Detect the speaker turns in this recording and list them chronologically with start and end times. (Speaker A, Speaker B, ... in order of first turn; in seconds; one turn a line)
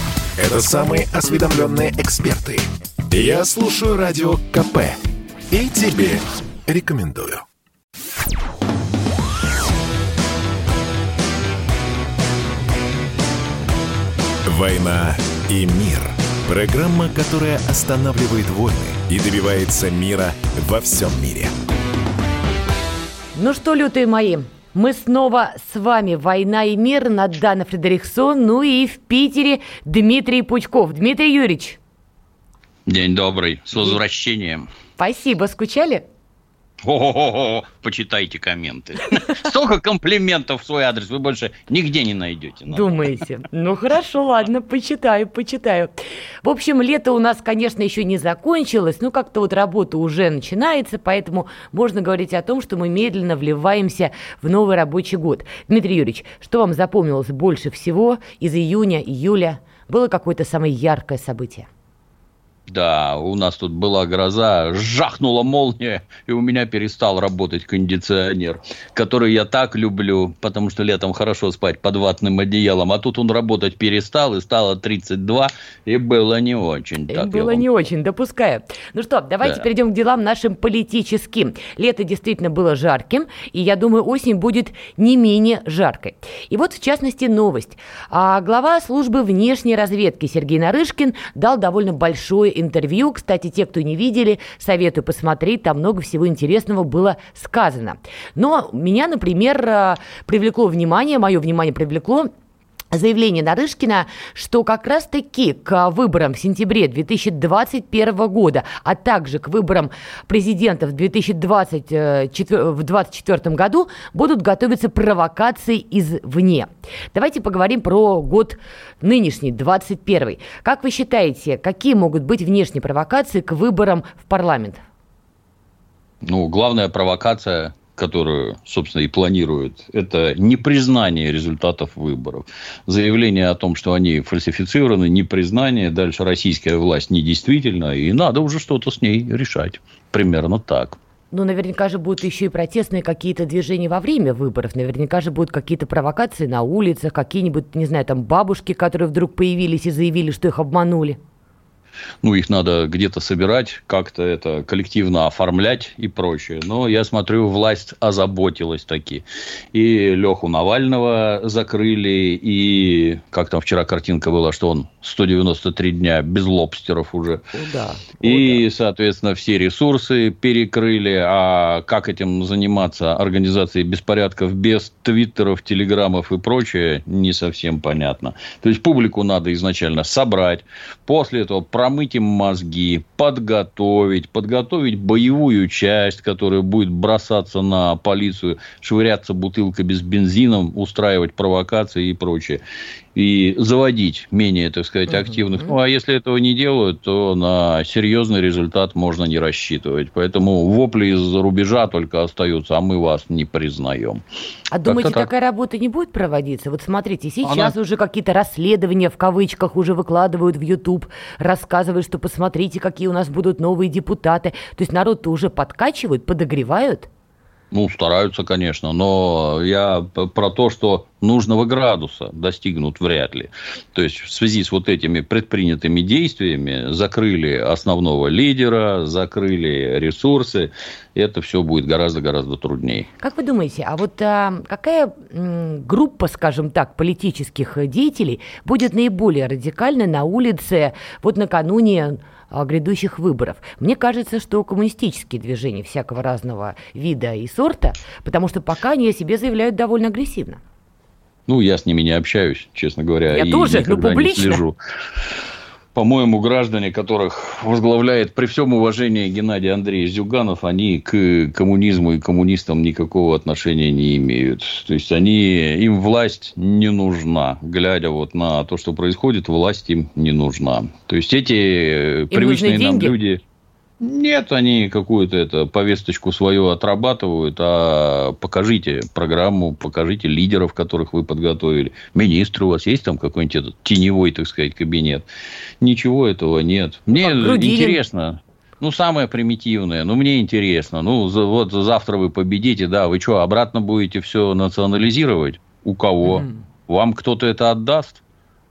Speaker A: 0.4-5.0
Speaker A: 5.5-7.4
Speaker A: 14.4-21.5
Speaker B: 23.4-31.8
Speaker C: 32.9-34.7
Speaker B: 35.0-36.0
Speaker C: 36.8-43.0
Speaker B: 42.7-45.9
Speaker B: 46.4-61.7
Speaker C: 62.7-77.6
Speaker B: 77.1-102.3
Speaker B: 102.9-124.8
Speaker C: 126.2-141.0
Speaker B: 141.3-151.2
Speaker C: 152.2-167.4
Speaker B: 167.5-168.6
Speaker C: 168.2-192.6
Speaker C: 193.1-204.2
Speaker B: 195.1-195.7
Speaker B: 204.7-217.1
Speaker C: 204.8-205.3
Speaker C: 207.4-207.7
Speaker C: 217.7-233.1
Speaker B: 233.2-250.6
Speaker C: 251.5-254.8
Speaker B: 253.3-254.6
Speaker C: 255.9-273.4
Speaker B: 272.3-273.1
Speaker C: 274.0-285.2
Speaker C: 285.8-298.2
Speaker B: 287.2-288.0